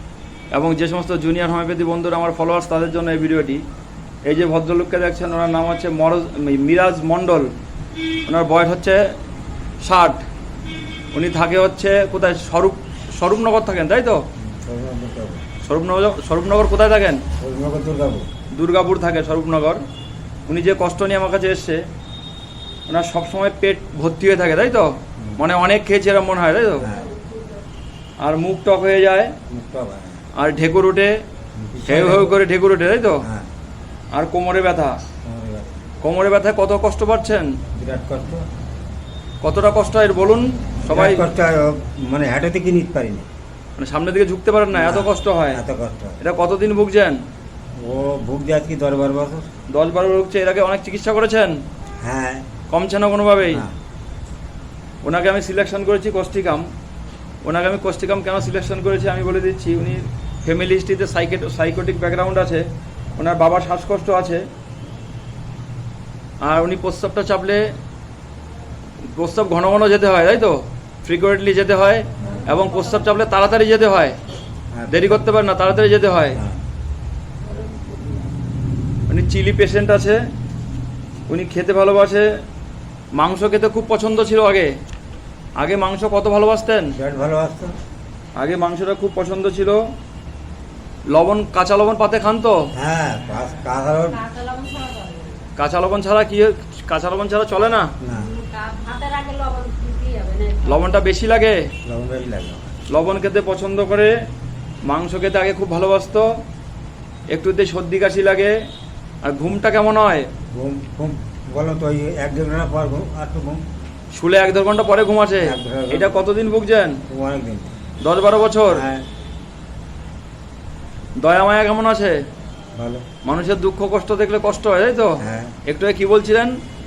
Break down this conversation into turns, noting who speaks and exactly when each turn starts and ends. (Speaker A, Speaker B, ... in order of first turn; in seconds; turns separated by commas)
Speaker A: 0.5-3.6, Speaker A: 4.2-7.5, Speaker A: 8.3-9.1, Speaker A: 9.8-10.2, Speaker A: 11.1-14.2, Speaker B: 14.4-15.4, Speaker A: 15.6-17.2, Speaker B: 17.4-18.3, Speaker A: 18.5-19.8, Speaker A: 20.5-21.9, Speaker A: 22.9-26.9, Speaker B: 26.8-27.1, Speaker A: 28.2-29.4, Speaker B: 29.5-30.2, Speaker A: 30.4-31.2, Speaker B: 31.6-32.4, Speaker A: 31.9-33.2, Speaker B: 33.2-33.5, Speaker A: 34.1-35.0, Speaker B: 35.2-35.8, Speaker A: 36.0-37.6, Speaker B: 37.7-38.5, Speaker A: 39.4-41.3, Speaker B: 40.9-43.3, Speaker A: 43.8-45.6, Speaker B: 44.7-46.2, Speaker A: 46.2-47.2, Speaker B: 47.8-49.5, Speaker A: 49.7-51.6, Speaker B: 52.0-52.5, Speaker A: 52.7-53.6, Speaker B: 53.5-53.8, Speaker A: 55.0-56.7, Speaker A: 57.4-62.7, Speaker A: 63.2-64.5, Speaker A: 66.4-67.7, Speaker A: 69.1-74.2, Speaker B: 72.2-72.5, Speaker B: 74.7-75.2, Speaker A: 74.9-76.4, Speaker B: 76.3-76.6, Speaker C: 77.5-78.2, Speaker A: 79.1-80.2, Speaker A: 81.3-82.4, Speaker A: 83.2-84.7, Speaker A: 85.6-87.0, Speaker B: 87.0-87.8, Speaker A: 88.4-89.9, Speaker A: 91.1-92.7, Speaker B: 92.7-94.3, Speaker C: 94.2-95.4, Speaker A: 95.6-97.9, Speaker B: 98.0-98.4, Speaker C: 98.2-100.8, Speaker A: 100.7-101.7, Speaker B: 101.8-102.8, Speaker A: 102.9-104.1, Speaker A: 104.9-106.4, Speaker A: 107.3-108.6, Speaker A: 109.2-110.3, Speaker B: 110.5-113.7, Speaker A: 114.1-117.0, Speaker B: 115.4-116.3, Speaker B: 117.1-117.8, Speaker A: 118.0-118.8, Speaker B: 118.7-119.1, Speaker A: 121.2-122.2, Speaker B: 122.8-123.0, Speaker A: 123.2-126.6, Speaker B: 125.2-125.6